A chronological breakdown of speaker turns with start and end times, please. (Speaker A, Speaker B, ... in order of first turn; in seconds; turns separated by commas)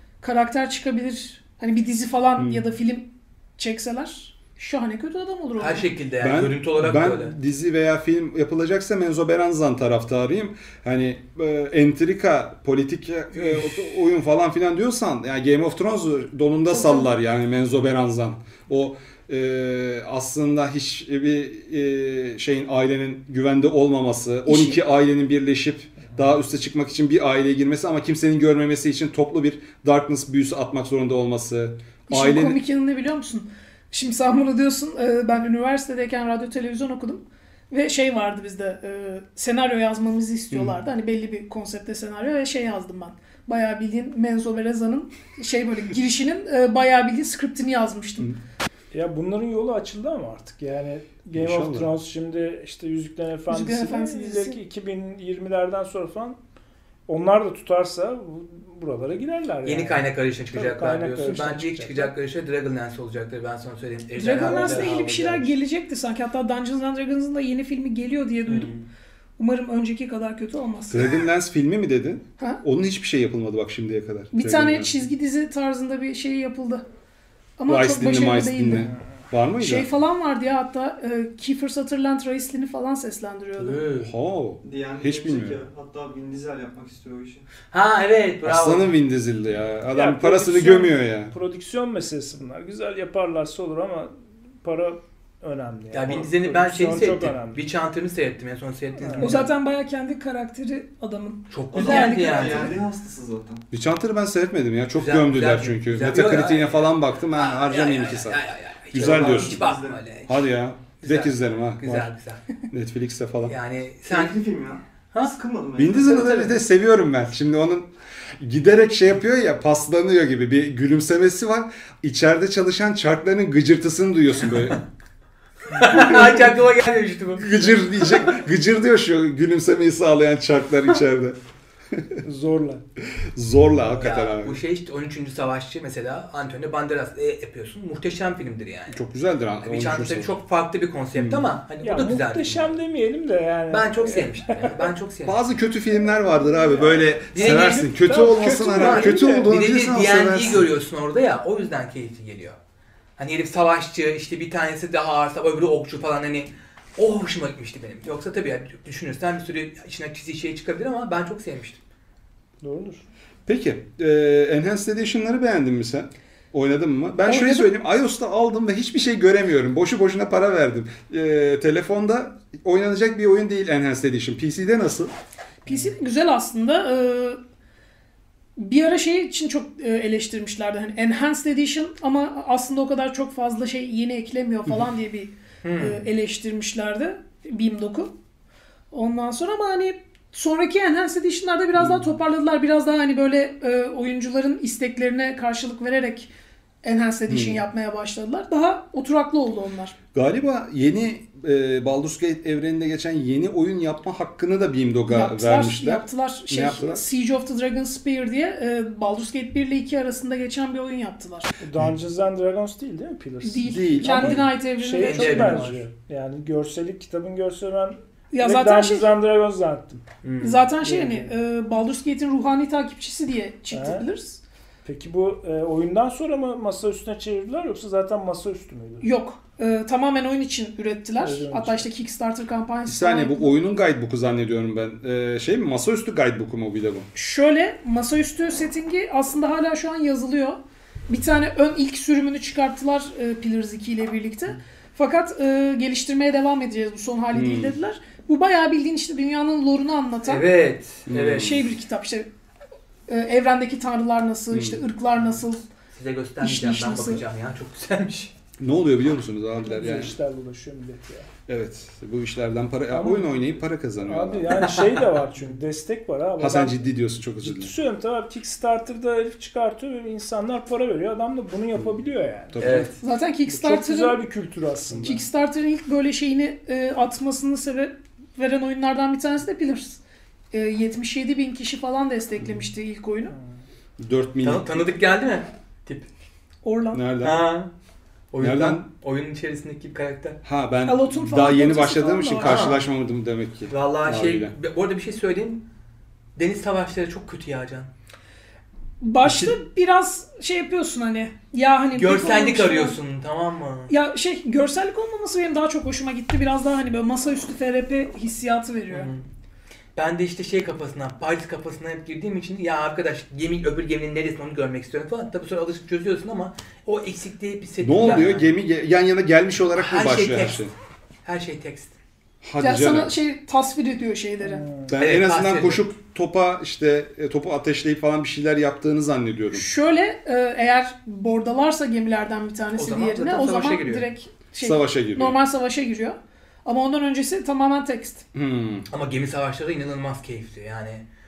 Speaker A: 0.2-5.9, Speaker B: 2.4-2.6, Speaker C: 5.6-7.3, Speaker B: 6.2-32.6, Speaker C: 13.3-13.8, Speaker A: 16.7-17.1, Speaker A: 24.5-24.8, Speaker A: 32.1-48.3, Speaker B: 40.5-40.8, Speaker D: 48.9-56.4, Speaker B: 51.3-51.9, Speaker A: 53.5-54.6, Speaker D: 57.1-62.1, Speaker C: 59.6-65.5, Speaker A: 64.1-68.7, Speaker D: 64.4-65.0, Speaker C: 68.5-68.9, Speaker A: 69.4-71.2, Speaker B: 70.9-75.0, Speaker A: 74.3-76.8, Speaker A: 77.6-78.9, Speaker B: 77.7-79.9, Speaker A: 79.6-83.8, Speaker C: 83.6-84.1, Speaker B: 84.0-85.6, Speaker E: 84.6-87.5, Speaker C: 87.7-88.9, Speaker B: 88.5-91.3, Speaker D: 89.9-97.6, Speaker C: 95.9-99.5, Speaker D: 99.0-99.4, Speaker A: 99.2-102.8, Speaker C: 101.5-102.8, Speaker E: 101.7-103.6, Speaker B: 103.7-108.4, Speaker C: 105.0-110.5, Speaker B: 108.9-109.7, Speaker E: 109.0-110.0, Speaker B: 110.3-112.1, Speaker C: 111.0-112.4, Speaker B: 112.7-113.5, Speaker C: 113.5-114.4, Speaker E: 114.1-116.5, Speaker B: 115.8-124.8, Speaker C: 125.7-128.3, Speaker B: 125.9-126.4, Speaker B: 127.4-131.4, Speaker B: 131.9-132.2, Speaker D: 132.2-132.8, Speaker B: 133.3-134.6, Speaker C: 134.0-139.0, Speaker B: 138.9-140.4, Speaker C: 139.6-142.7, Speaker B: 141.2-141.5, Speaker D: 141.8-144.9, Speaker C: 143.7-145.4, Speaker B: 145.3-150.7, Speaker D: 146.6-149.5, Speaker C: 147.3-147.9, Speaker C: 148.4-152.6, Speaker C: 153.2-161.8, Speaker D: 162.6-163.1, Speaker B: 163.5-175.1, Speaker A: 167.2-167.7, Speaker A: 175.7-177.4, Speaker A: 178.6-188.1, Speaker C: 185.6-186.0, Speaker A: 188.9-196.3, Speaker B: 191.8-192.0, Speaker A: 196.8-199.9, Speaker B: 197.3-197.6, Speaker B: 200.1-207.0, Speaker A: 205.1-211.5, Speaker D: 211.6-220.0, Speaker A: 213.4-215.7, Speaker B: 213.6-214.5, Speaker C: 214.9-215.8, Speaker A: 218.3-219.1, Speaker C: 220.2-220.7, Speaker A: 220.4-224.4, Speaker D: 220.8-221.3, Speaker D: 223.7-224.1, Speaker D: 224.8-229.1, Speaker A: 229.0-233.5, Speaker D: 231.2-231.9, Speaker B: 232.9-237.1, Speaker A: 237.1-250.4, Speaker B: 247.3-247.8, Speaker C: 250.2-251.6, Speaker B: 251.1-251.7, Speaker A: 251.4-252.3, Speaker A: 253.1-255.6, Speaker B: 254.5-254.8, Speaker C: 255.9-258.3, Speaker A: 256.4-257.2, Speaker B: 258.6-260.2, Speaker D: 259.6-261.3, Speaker B: 261.5-264.6, Speaker D: 262.9-263.4, Speaker D: 264.0-266.9, Speaker C: 264.5-265.0, Speaker B: 266.4-267.7, Speaker D: 267.4-275.2, Speaker B: 272.5-272.9, Speaker C: 272.6-272.9, Speaker A: 273.0-274.2, Speaker A: 275.0-280.0, Speaker A: 280.5-283.3, Speaker B: 284.0-284.8, Speaker C: 284.4-286.1, Speaker A: 286.6-287.0, Speaker B: 286.9-287.4, Speaker C: 287.2-287.7, Speaker C: 288.3-290.4, Speaker B: 288.4-288.9, Speaker B: 290.4-294.5, Speaker A: 290.9-292.8, Speaker C: 292.4-292.9, Speaker C: 293.7-295.6, Speaker C: 296.4-297.9, Speaker A: 299.0-303.0, Speaker B: 299.2-299.6, Speaker C: 301.9-303.9, Speaker A: 303.9-309.1, Speaker C: 308.9-309.2, Speaker C: 310.0-318.5, Speaker B: 317.8-320.7, Speaker C: 319.8-320.7, Speaker C: 321.2-321.9, Speaker B: 322.4-323.1, Speaker A: 322.6-324.6, Speaker D: 324.4-325.0, Speaker B: 324.9-329.7, Speaker C: 324.9-325.9, Speaker A: 329.5-338.2, Speaker C: 332.8-334.1, Speaker B: 334.6-335.4, Speaker B: 338.3-338.9, Speaker C: 338.9-341.0